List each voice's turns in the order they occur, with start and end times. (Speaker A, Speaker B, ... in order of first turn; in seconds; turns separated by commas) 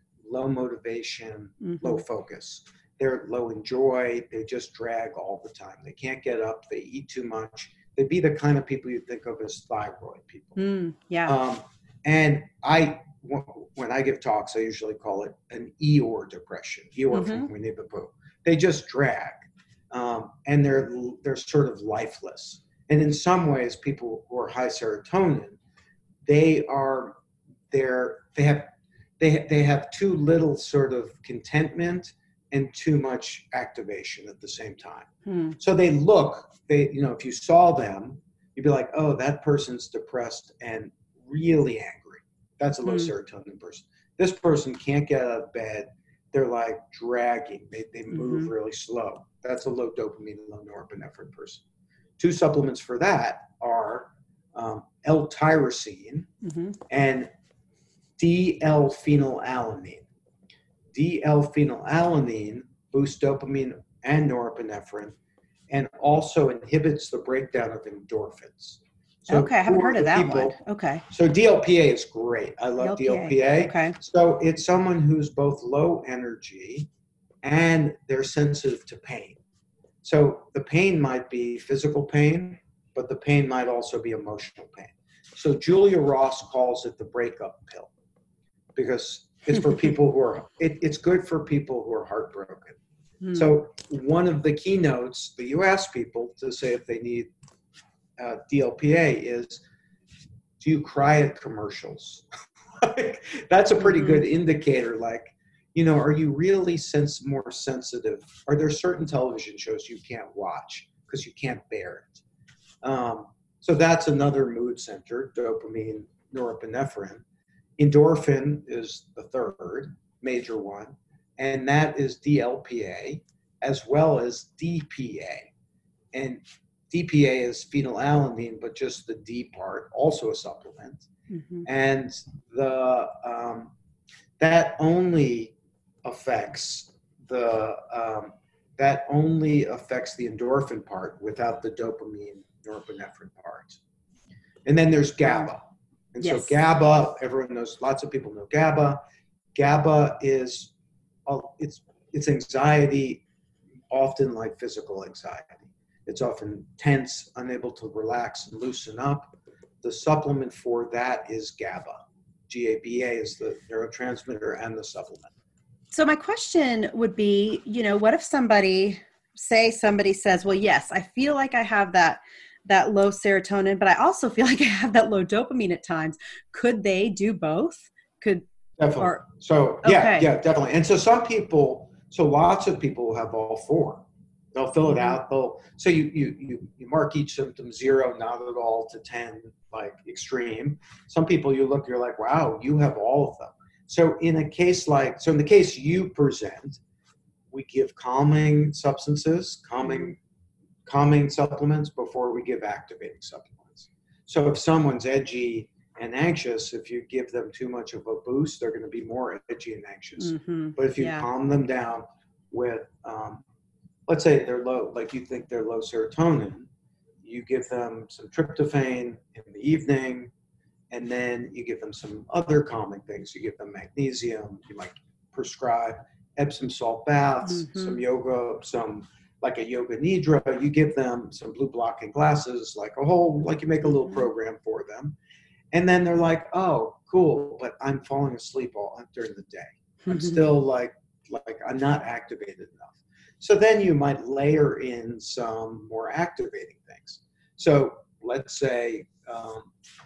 Speaker A: 0.2-10.6, Speaker B: 1.6-2.0, Speaker B: 10.6-11.4, Speaker A: 11.3-25.6, Speaker B: 17.1-17.5, Speaker A: 26.2-27.2, Speaker A: 27.7-51.6, Speaker B: 35.3-35.6, Speaker B: 42.9-43.1, Speaker B: 48.1-48.5, Speaker A: 52.2-56.3, Speaker B: 56.4-56.8, Speaker A: 56.9-57.3, Speaker A: 58.2-60.1, Speaker A: 60.9-65.2, Speaker A: 65.7-70.6, Speaker B: 69.3-71.0, Speaker A: 71.1-76.9, Speaker B: 72.8-74.0, Speaker A: 77.4-79.4, Speaker A: 80.0-87.9, Speaker A: 88.8-92.8, Speaker B: 93.2-93.5, Speaker A: 93.3-97.3, Speaker A: 98.2-99.6, Speaker A: 100.6-102.3, Speaker A: 102.8-112.2, Speaker A: 112.8-117.2, Speaker A: 117.8-125.5, Speaker A: 126.1-131.1, Speaker B: 131.3-131.7, Speaker A: 131.7-133.7, Speaker A: 134.4-135.5, Speaker A: 136.1-143.8, Speaker A: 144.7-149.0, Speaker B: 146.2-146.6, Speaker A: 149.6-150.7, Speaker A: 151.3-153.2, Speaker A: 153.9-165.3, Speaker B: 165.9-178.4, Speaker A: 178.8-196.8, Speaker B: 179.0-179.2, Speaker B: 179.8-180.3, Speaker B: 184.9-185.2, Speaker A: 197.5-200.2, Speaker A: 200.9-213.4, Speaker B: 210.2-211.3, Speaker A: 214.1-216.7, Speaker A: 217.2-220.3, Speaker A: 220.9-235.2, Speaker B: 227.5-228.0, Speaker A: 235.7-249.7, Speaker B: 240.1-240.4